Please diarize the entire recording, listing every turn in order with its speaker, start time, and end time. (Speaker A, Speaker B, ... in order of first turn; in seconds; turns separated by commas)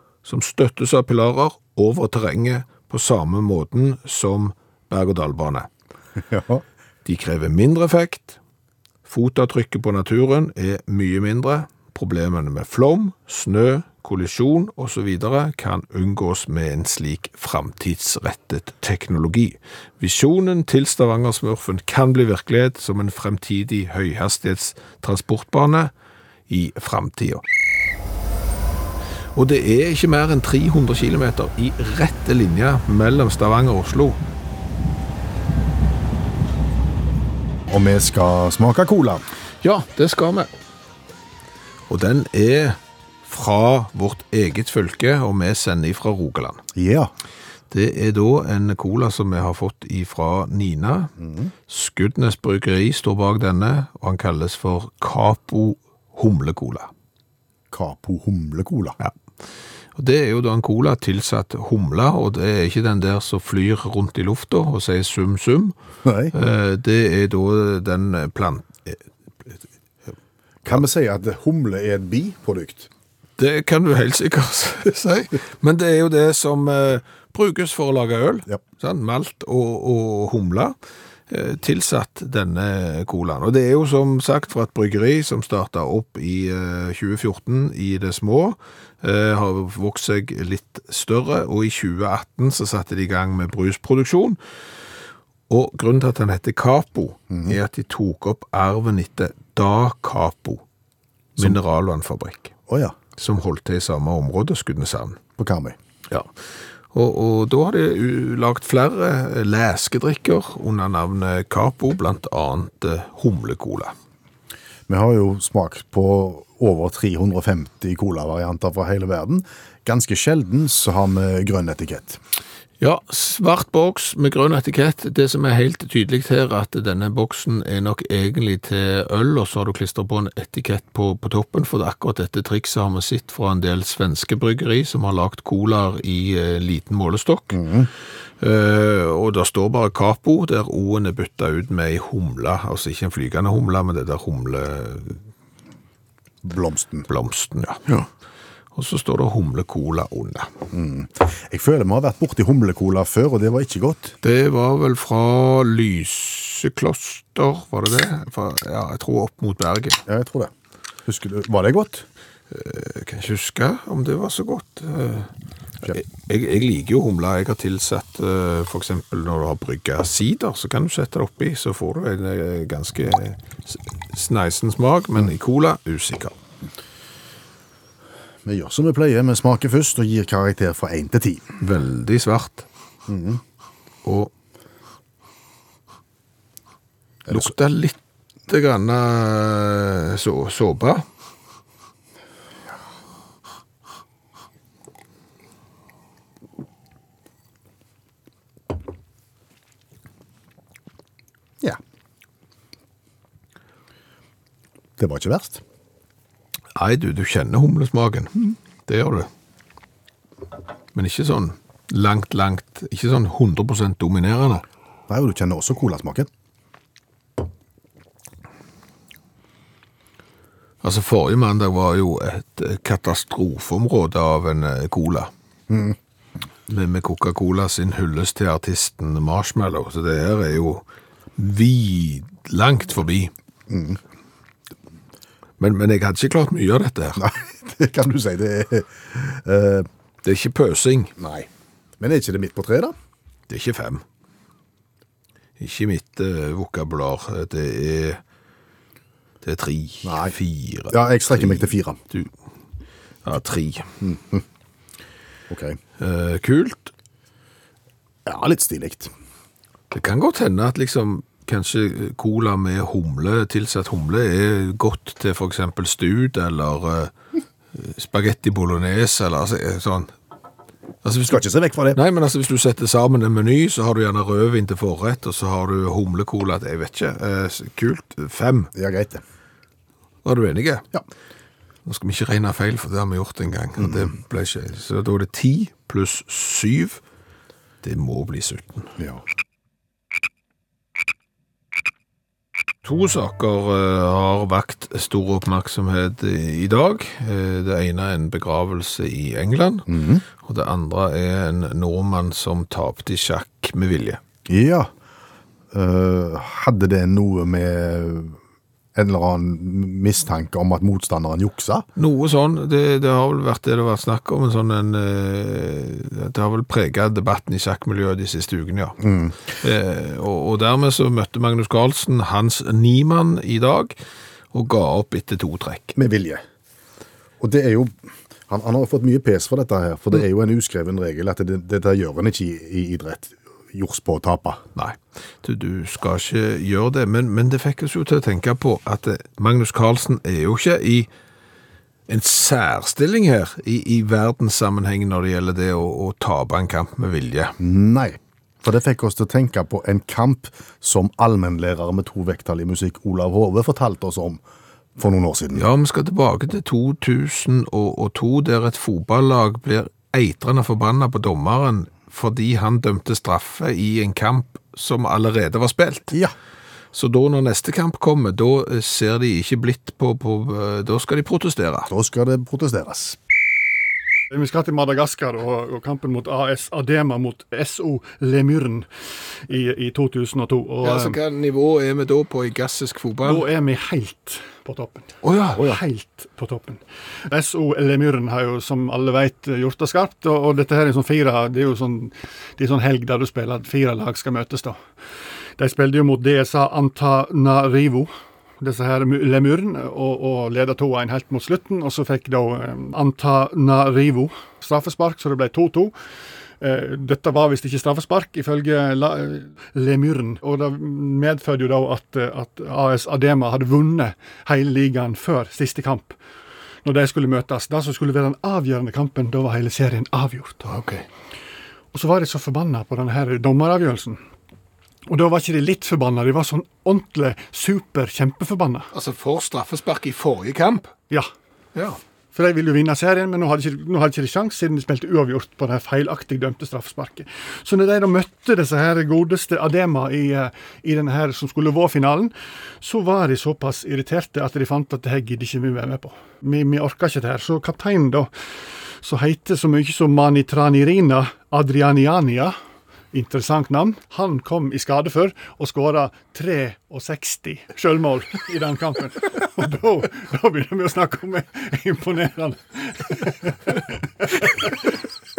Speaker A: 0.2-5.7, Speaker B: 6.2-6.6, Speaker A: 7.0-8.4, Speaker A: 9.1-25.9, Speaker A: 26.5-27.4, Speaker A: 29.4-34.2, Speaker B: 37.7-39.2, Speaker A: 39.6-40.5, Speaker A: 41.9-46.6, Speaker B: 46.7-47.1, Speaker A: 47.7-51.1, Speaker B: 51.2-51.5, Speaker A: 51.7-56.9, Speaker B: 57.7-59.0, Speaker A: 59.9-65.7, Speaker B: 66.0-66.3, Speaker A: 66.3-69.6, Speaker B: 70.6-72.9, Speaker A: 73.4-80.7, Speaker A: 81.3-94.4, Speaker A: 95.5-100.6, Speaker B: 97.3-97.6, Speaker A: 101.4-102.5, Speaker B: 102.7-103.0, Speaker A: 103.2-105.2, Speaker B: 105.4-105.8, Speaker A: 106.9-113.9, Speaker B: 114.9-122.2, Speaker A: 122.8-137.6, Speaker B: 137.5-137.9, Speaker A: 138.4-145.2, Speaker B: 146.4-147.1, Speaker A: 147.1-148.0, Speaker A: 148.7-150.5, Speaker B: 150.7-154.2, Speaker A: 154.2-160.0, Speaker B: 160.1-160.5, Speaker B: 161.1-162.1, Speaker A: 162.5-165.3, Speaker A: 165.8-176.3, Speaker B: 178.4-181.5, Speaker A: 181.6-182.7, Speaker B: 183.1-183.4, Speaker A: 184.1-184.3, Speaker B: 187.3-187.5, Speaker A: 187.3-188.0, Speaker A: 188.5-191.1, Speaker B: 205.0-205.6, Speaker A: 206.7-209.3, Speaker A: 210.9-214.6, Speaker B: 215.1-216.3, Speaker A: 220.8-225.3, Speaker B: 225.7-226.0, Speaker A: 226.7-230.8, Speaker A: 231.4-233.3, Speaker B: 233.7-234.0, Speaker A: 235.6-237.2, Speaker B: 237.2-239.9, Speaker A: 240.2-241.1, Speaker B: 241.2-242.9, Speaker A: 243.5-244.0, Speaker A: 245.6-248.2, Speaker A: 249.4-252.3, Speaker B: 250.0-250.3, Speaker B: 250.9-252.0, Speaker A: 253.2-253.9, Speaker B: 254.0-254.4, Speaker B: 255.5-255.8, Speaker A: 256.0-256.9, Speaker B: 258.3-259.1, Speaker A: 259.9-267.1, Speaker A: 267.7-270.1, Speaker A: 271.1-271.4, Speaker B: 271.3-272.0, Speaker A: 271.9-278.7, Speaker B: 278.7-279.2, Speaker A: 280.2-280.9, Speaker A: 281.9-287.0, Speaker B: 283.8-284.1, Speaker A: 287.8-288.9, Speaker B: 289.0-289.2, Speaker A: 292.8-299.9, Speaker B: 299.9-300.2, Speaker A: 300.4-304.2, Speaker B: 304.5-304.9, Speaker B: 305.7-308.4, Speaker B: 308.9-311.8, Speaker A: 311.9-319.0, Speaker B: 319.0-319.3, Speaker A: 319.5-323.9, Speaker A: 324.5-325.9, Speaker B: 325.9-326.4, Speaker B: 327.4-327.9, Speaker B: 328.5-334.6, Speaker A: 334.7-341.1, Speaker A: 342.1-347.6, Speaker B: 347.6-354.4, Speaker B: 355.0-355.7, Speaker A: 355.6-366.2, Speaker A: 366.9-371.9, Speaker B: 371.9-373.2, Speaker C: 374.3-378.9, Speaker C: 379.5-381.1, Speaker A: 380.8-383.5, Speaker C: 383.2-394.8, Speaker A: 385.2-385.8, Speaker C: 395.6-398.1, Speaker C: 398.6-405.9, Speaker C: 406.6-416.1, Speaker C: 416.8-420.6, Speaker A: 420.6-421.1, Speaker C: 421.9-424.2, Speaker C: 425.1-428.9, Speaker A: 428.9-430.9, Speaker C: 432.3-448.3, Speaker C: 449.0-452.5, Speaker C: 453.1-464.8